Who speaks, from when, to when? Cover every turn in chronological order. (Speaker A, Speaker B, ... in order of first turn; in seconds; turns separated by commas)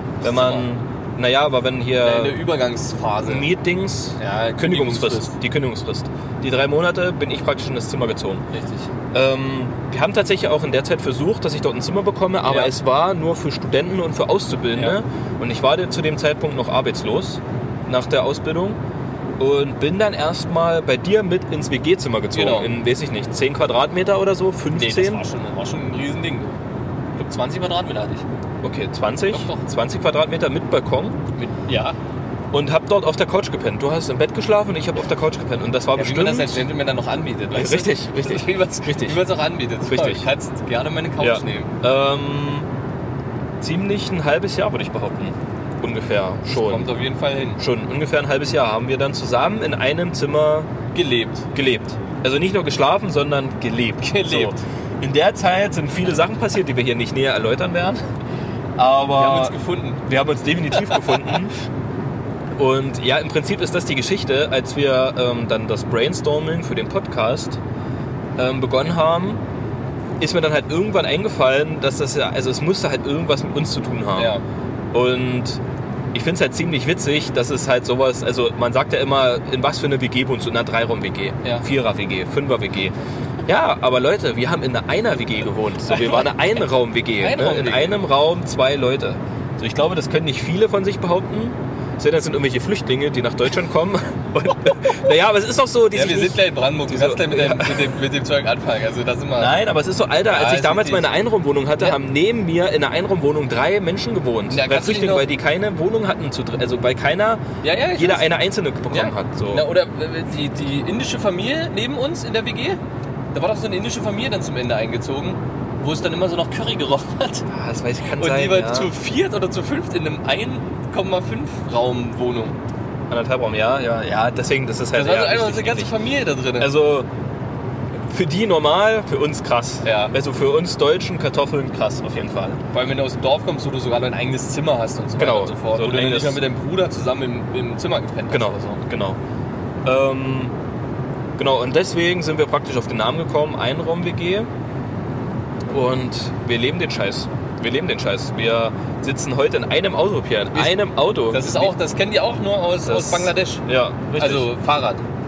Speaker A: 0.2-0.7, Speaker B: 0.2-2.4, Speaker A: 2.0-3.5, Speaker B: 3.2-8.4, Speaker A: 4.2-5.3, Speaker A: 8.5-8.9, Speaker B: 9.1-18.8, Speaker A: 12.4-12.7, Speaker B: 19.4-25.2, Speaker A: 22.3-22.7, Speaker A: 24.7-26.6, Speaker A: 27.2-28.2, Speaker B: 28.6-31.2, Speaker A: 29.3-29.6, Speaker A: 31.4-32.0, Speaker B: 32.5-36.7, Speaker A: 36.0-41.7, Speaker B: 37.5-39.2, Speaker B: 39.9-40.3, Speaker B: 41.2-42.7, Speaker B: 43.6-46.9, Speaker A: 46.5-47.6, Speaker B: 47.6-50.7, Speaker A: 50.9-51.5, Speaker B: 51.5-58.0, Speaker A: 54.0-54.6, Speaker B: 58.8-61.6, Speaker A: 59.1-60.0, Speaker A: 60.8-61.3, Speaker B: 62.6-67.6, Speaker B: 68.4-69.4, Speaker B: 70.2-74.3, Speaker A: 74.2-74.4, Speaker B: 74.9-75.6, Speaker B: 76.1-98.0, Speaker A: 85.9-86.3, Speaker A: 87.2-88.0, Speaker A: 95.9-99.6, Speaker B: 99.4-107.4, Speaker A: 100.3-101.1, Speaker A: 104.5-105.3, Speaker A: 107.6-108.3, Speaker B: 108.0-109.7, Speaker A: 108.9-112.8, Speaker A: 113.3-117.5, Speaker B: 117.5-118.9, Speaker A: 118.2-122.6, Speaker B: 123.1-126.0, Speaker A: 124.9-126.7, Speaker B: 126.6-127.1, Speaker B: 128.1-132.6, Speaker A: 129.8-130.1, Speaker A: 132.7-138.8, Speaker B: 135.2-136.4, Speaker B: 138.3-139.2, Speaker B: 139.8-140.6, Speaker B: 141.4-144.5, Speaker B: 145.7-151.8, Speaker A: 150.5-153.7, Speaker B: 152.8-154.5, Speaker A: 154.2-155.0